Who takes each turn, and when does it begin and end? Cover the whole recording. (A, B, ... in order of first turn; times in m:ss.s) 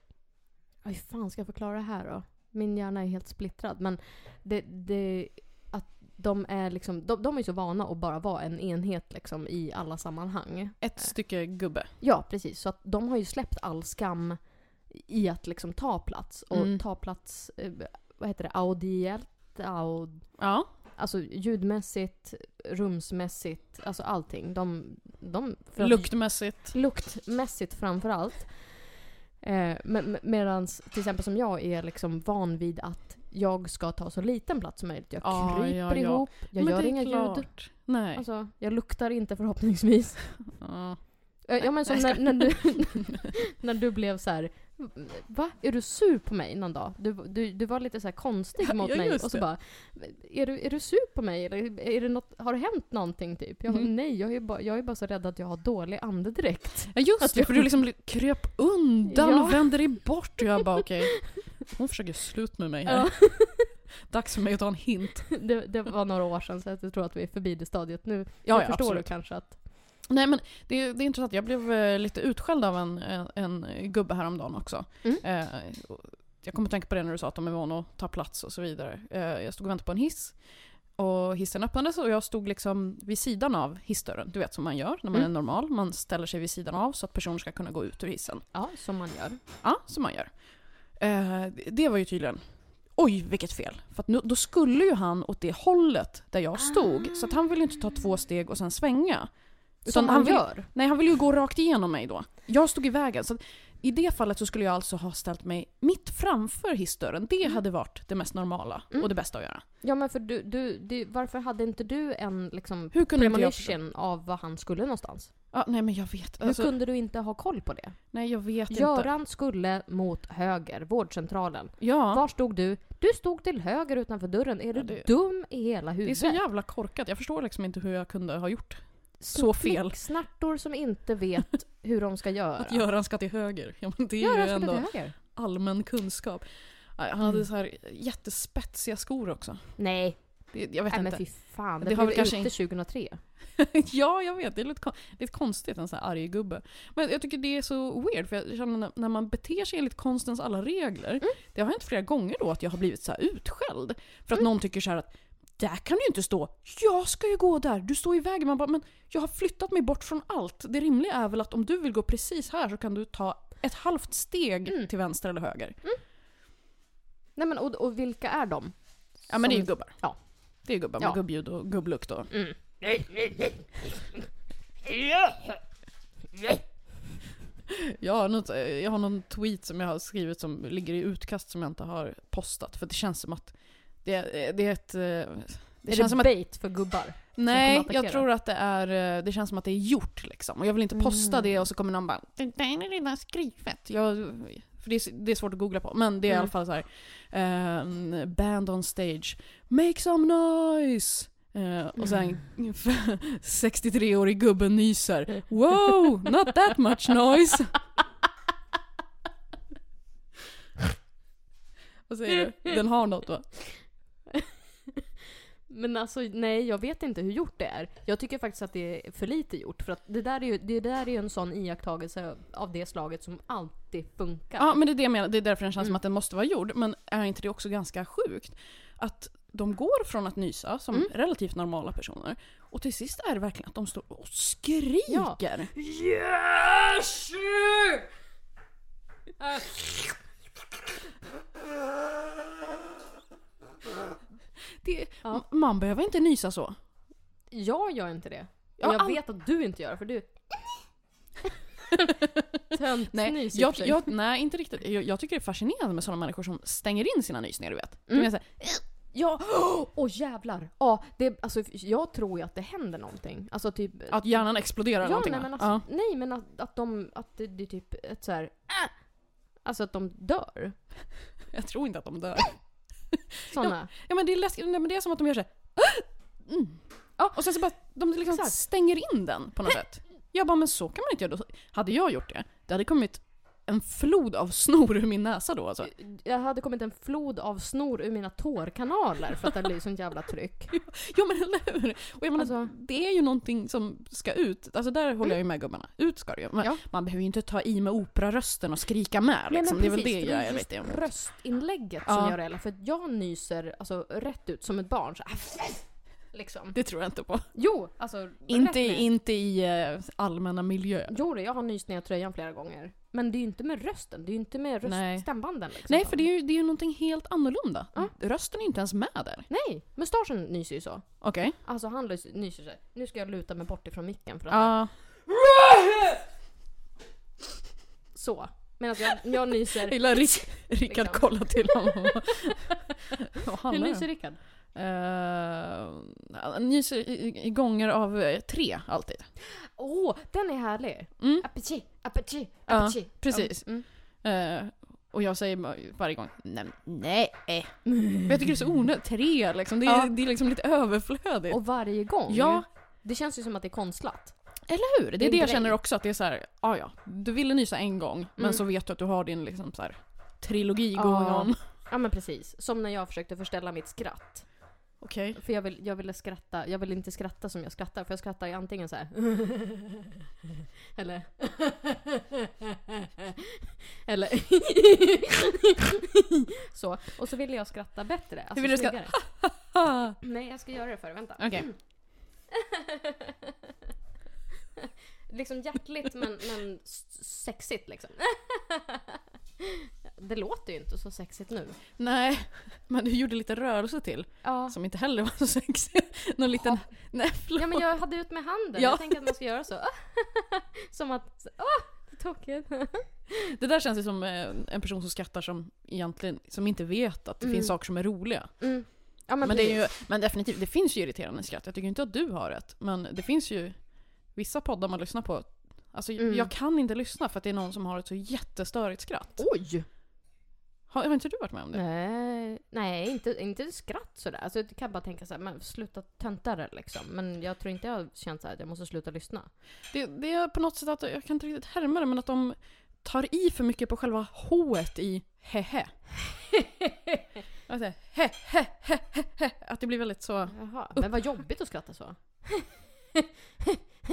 0:00.8-0:40.8 A
0:10.8-0:11.9 B
0:16.5-0:16.8 B
0:20.4-0:20.7 B
0:25.8-0:26.7 B
0:35.2-0:38.2 B
0:40.6-0:42.8 B
0:41.4-0:57.7 A
0:48.6-0:49.5 B
0:56.9-1:05.4 B
0:59.1-1:00.3 A
1:02.9-1:03.8 A
1:05.3-1:09.6 A
1:08.4-1:28.7 B
1:28.5-1:29.4 A
1:29.6-1:49.6 B
1:36.6-1:37.3 A
1:39.8-1:40.7 A
1:47.4-1:48.0 A
1:48.9-1:55.6 A
1:52.9-1:53.8 B
1:55.5-1:56.8 B
1:56.4-2:06.4 A
1:58.1-1:59.1 B
2:01.8-2:02.2 B
2:04.7-2:10.2 B
2:09.2-2:12.9 A
2:12.6-2:22.7 B
2:14.2-2:15.2 A
2:19.8-2:23.2 A
2:23.6-2:45.8 B
2:44.6-2:46.0 A
2:47.3-2:53.6 A
2:49.3-2:52.4 B
2:54.9-2:55.5 A
2:58.0-3:27.9 B
3:05.8-3:08.2 A
3:10.9-3:11.6 A
3:16.3-3:16.5 A
3:32.1-3:34.0 B
3:35.7-3:44.9 A
3:44.6-3:55.7 B
3:55.1-3:58.0 A
3:59.4-4:00.1 A
4:04.8-4:06.8 B
4:07.5-4:11.1 A
4:08.8-4:09.2 B
4:12.7-4:14.1 A
4:13.1-4:18.8 B
4:18.1-4:31.1 A
4:24.1-4:25.8 B
4:31.5-4:33.2 B
4:33.5-4:33.9 A
4:34.0-4:45.9 B
4:37.2-4:39.2 A
4:45.8-4:50.9 A
4:50.9-5:01.5 B
4:52.4-4:52.7 A
4:59.5-5:09.1 A
5:02.0-5:02.4 B
5:06.7-5:11.2 B
5:11.1-5:16.2 A
5:14.8-5:19.5 B
5:19.5-5:26.2 A
5:21.2-5:21.6 B
5:24.5-5:25.0 B
5:28.1-5:31.8 A
5:29.9-5:39.3 B
5:33.7-5:34.4 A
5:39.6-5:43.9 A
5:41.2-5:41.7 B
5:42.7-5:52.7 B
5:48.1-5:48.3 A
5:51.5-5:54.6 A
5:54.7-6:01.6 B
5:55.2-5:55.8 A
5:58.4-5:58.6 A
6:00.9-6:10.0 A
6:05.0-6:05.4 B
6:10.9-6:12.0 A
6:14.0-6:15.7 A
6:16.7-6:19.6 A
6:18.6-6:20.1 B
6:20.2-6:22.3 A
6:21.4-6:21.7 B
6:25.3-6:29.0 A
6:30.2-6:31.8 A
6:32.0-6:39.4 B
6:34.4-6:34.8 A
6:36.5-6:43.3 A
6:43.5-6:59.6 B
6:47.4-6:49.8 A
6:56.2-6:56.5 A
6:59.4-6:59.9 A
7:00.9-7:01.8 B
7:01.7-7:09.5 A
7:09.9-7:16.0 B
7:17.7-7:21.3 B
7:20.5-7:22.9 A